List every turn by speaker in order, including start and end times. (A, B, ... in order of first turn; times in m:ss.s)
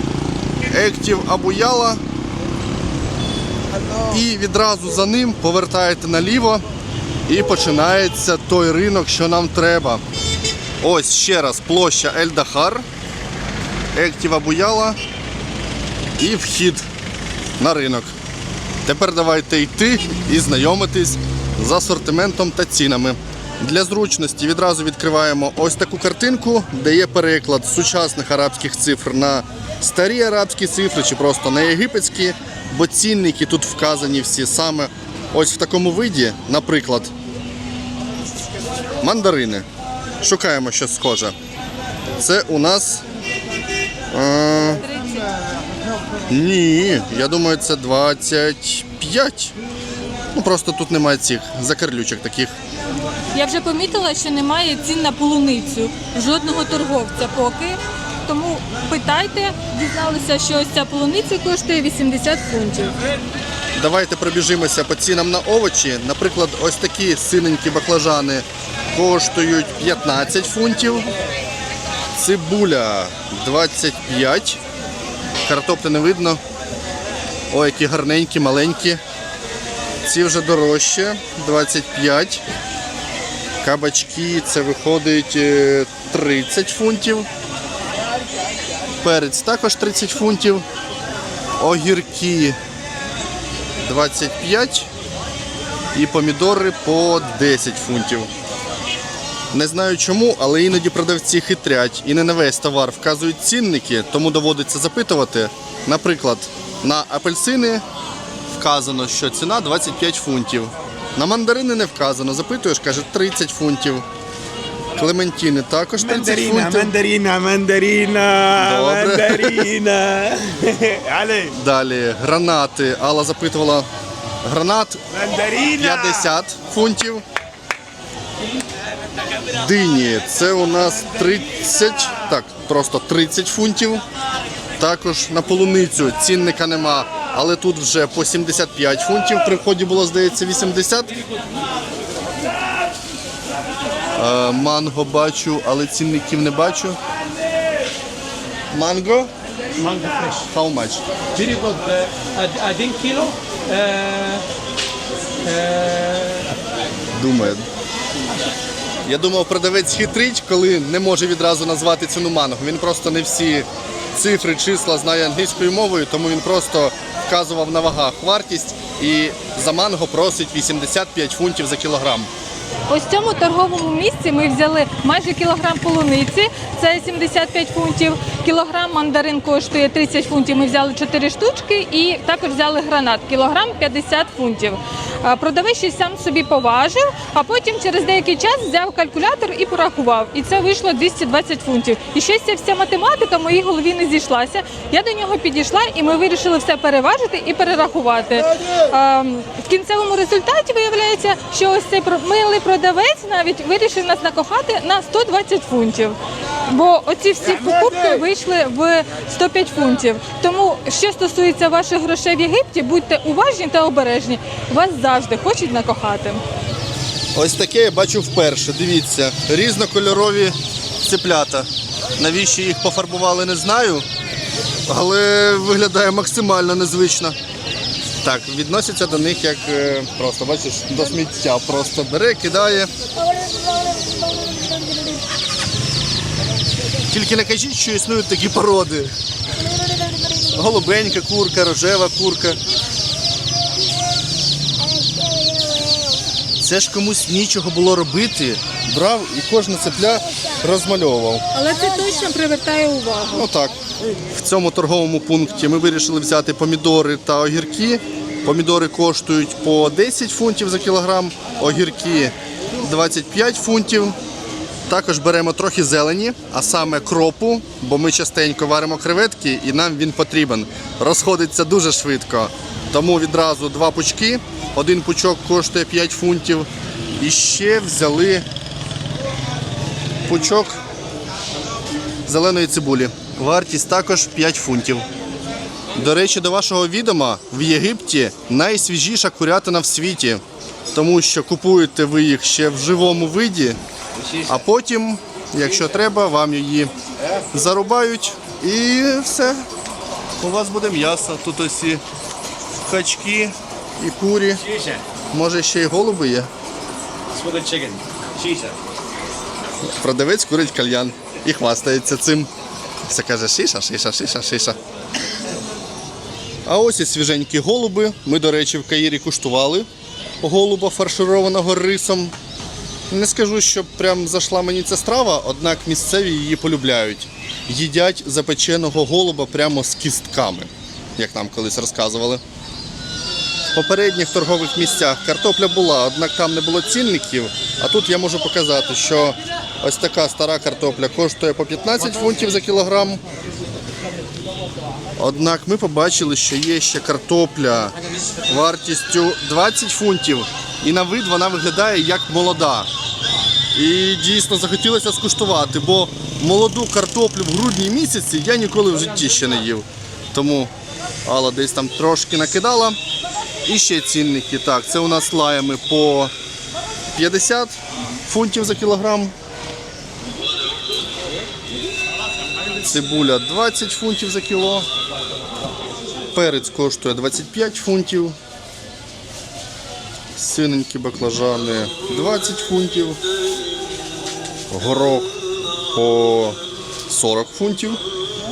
0:00.7-0:02.0 A
0:04.1-0:06.6 A
0:07.3-0:10.0 A
0:10.8-0:12.9 A
0:14.0-0:15.0 A
0:16.2-0:16.9 A
0:17.6-0:18.2 A
0:18.8-0:37.1 A
0:39.0-0:39.7 A
0:40.2-0:41.4 A
0:42.2-0:43.0 A
0:44.1-0:44.8 A
0:44.9-0:45.3 B
0:46.3-0:49.6 A
0:50.3-0:52.6 A
0:53.3-1:03.0 B
1:03.8-1:11.1 A
1:12.2-1:14.6 A
1:15.4-1:16.4 A
1:17.5-1:19.0 A
1:20.0-1:22.4 A
1:23.6-1:27.3 A
1:29.0-1:30.7 A
1:31.6-1:32.6 A
1:33.8-1:34.9 A
1:35.9-1:38.3 A
1:39.5-1:47.8 A
1:48.5-1:54.1 A
1:55.0-1:56.9 A
1:56.0-2:01.5 C
1:58.6-1:59.7 A
2:01.5-2:03.9 A
2:04.4-2:05.0 A
2:05.2-2:06.1 C
2:05.7-2:07.2 A
2:09.5-2:14.0 A
2:14.8-2:21.1 A
2:24.2-2:27.0 A
2:28.7-2:29.3 A
2:29.8-2:30.5 D
2:30.5-2:31.0 A
2:31.4-2:34.4 D
2:35.4-2:36.5 D
2:37.2-2:37.7 A
2:39.1-2:52.3 A
2:52.9-3:36.4 B
3:37.4-3:44.1 A
3:44.9-3:47.4 A
3:48.2-3:52.9 A
3:57.1-3:59.1 A
4:00.5-4:02.6 A
4:06.6-4:11.4 A
4:11.5-4:13.5 B
4:13.3-4:13.8 A
4:14.3-4:24.2 A
4:24.9-4:38.5 A
4:40.3-4:40.8 A
4:42.3-4:45.1 A
4:46.0-4:50.4 A
4:50.9-4:53.8 A
4:54.4-4:57.0 A
4:57.5-4:59.7 A
5:00.4-5:02.0 A
5:02.8-5:04.7 A
5:05.3-5:06.5 A
5:07.4-5:08.7 D
5:09.9-5:12.5 A
5:13.1-5:14.8 A
5:16.7-5:19.9 A
5:20.4-5:22.4 A
5:23.1-5:32.4 A
5:33.7-5:43.2 A
5:45.2-5:47.9 A
5:48.5-5:52.9 A
5:53.8-6:00.7 A
6:01.2-6:03.0 A
6:03.7-6:06.3 A
6:07.1-6:09.4 A
6:12.8-6:14.9 A
6:16.3-6:18.4 A
6:20.4-6:23.2 A
6:24.7-6:25.3 A
6:25.9-6:28.0 A